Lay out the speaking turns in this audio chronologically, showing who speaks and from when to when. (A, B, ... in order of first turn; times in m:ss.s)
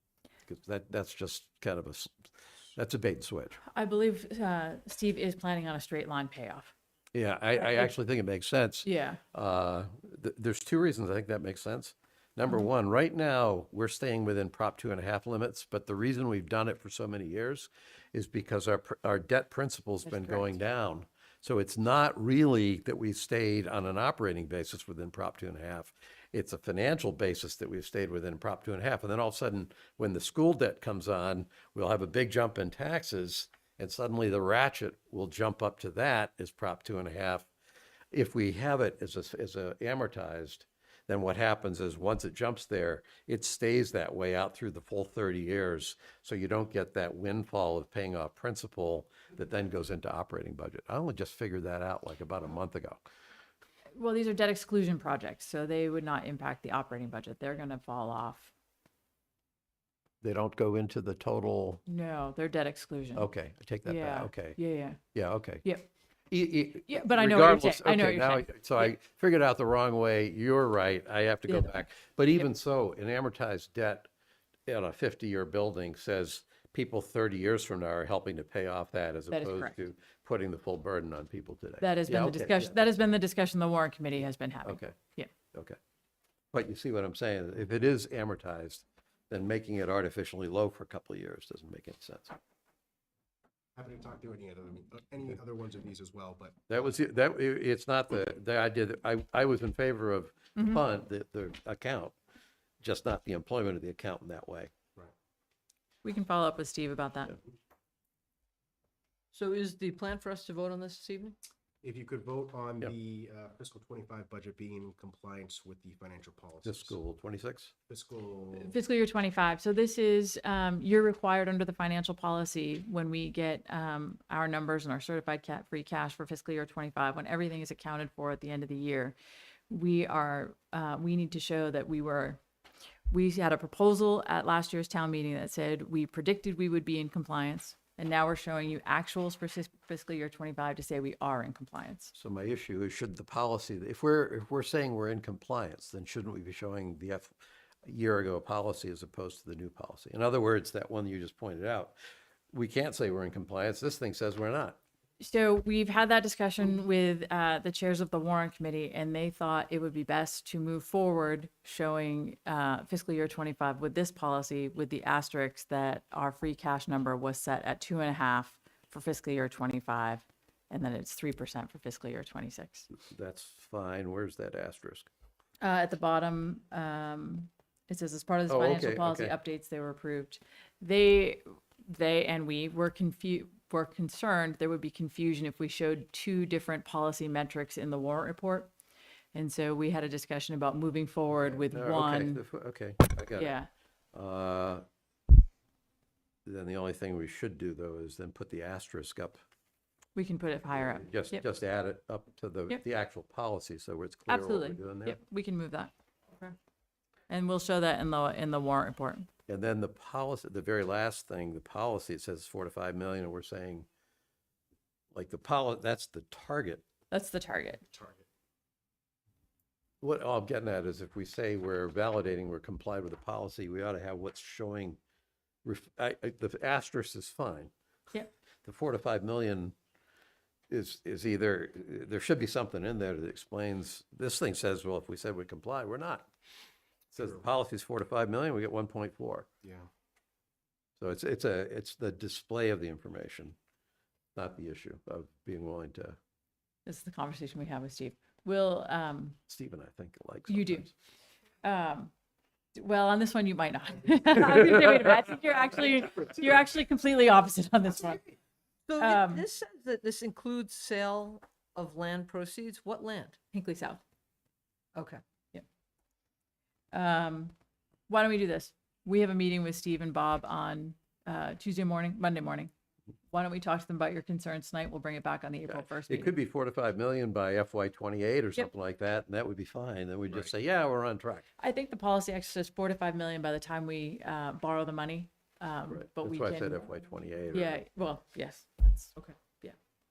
0:00.5-0:02.1 A
0:02.7-0:03.6 A
0:03.7-0:06.7 B
0:07.1-0:37.5 A
0:07.6-0:07.9 B
0:08.8-0:09.2 B
0:20.1-0:20.5 B
0:38.1-0:53.0 A
0:54.0-0:58.5 B
1:00.2-1:01.8 A
1:01.9-1:03.3 B
1:03.1-1:04.6 A
1:03.8-1:05.0 B
1:05.1-1:05.6 A
1:06.3-1:14.1 A
1:06.9-1:08.9 B
1:11.5-1:11.8 B
1:14.7-1:22.8 A
1:19.3-1:19.8 B
1:21.8-1:25.3 B
1:24.6-1:25.0 A
1:26.5-1:32.4 A
1:33.8-1:36.5 C
1:36.7-1:42.1 A
1:40.6-1:40.8 B
1:42.8-1:44.7 A
1:46.0-1:47.4 B
1:49.3-1:51.4 D
1:51.8-1:57.0 C
1:56.6-1:57.7 A
1:57.9-1:58.7 C
1:58.5-2:09.2 B
2:09.7-2:12.4 B
2:13.1-2:22.1 B
2:22.1-2:27.3 A
2:27.8-2:31.9 A
2:32.5-2:34.8 A
2:35.2-2:52.9 B
2:52.9-2:55.1 A
2:55.6-3:08.7 B
2:58.5-2:59.3 A
3:09.3-3:12.4 B
3:11.7-3:13.5 A
3:13.3-3:13.7 B
3:14.1-3:14.8 A
3:16.4-3:19.4 A
3:20.1-3:21.4 B
3:20.7-3:25.2 A
3:24.3-3:25.9 B
3:27.3-3:29.3 B
3:29.5-3:33.9 A
3:35.1-3:36.8 A
3:37.1-3:37.8 B
3:37.9-3:38.2 C
3:40.0-3:45.0 A
3:45.6-3:47.7 A
3:48.6-3:49.7 A
3:50.7-3:56.3 A
3:57.1-3:59.5 A
3:59.6-3:59.9 C
4:01.0-4:03.6 A
4:04.3-4:06.2 A
4:06.8-4:09.4 B
4:09.5-4:10.9 A
4:10.5-4:10.9 B
4:11.6-4:12.1 B
4:12.7-4:18.2 B
4:18.9-4:23.4 D
4:19.0-4:19.4 B
4:23.5-4:24.0 B
4:25.0-4:25.2 D
4:26.9-4:27.5 B
4:28.1-4:32.7 B
4:33.3-4:36.3 B
4:35.7-4:41.4 A
4:41.6-4:46.9 B
4:45.9-4:47.8 A
4:47.5-4:49.7 B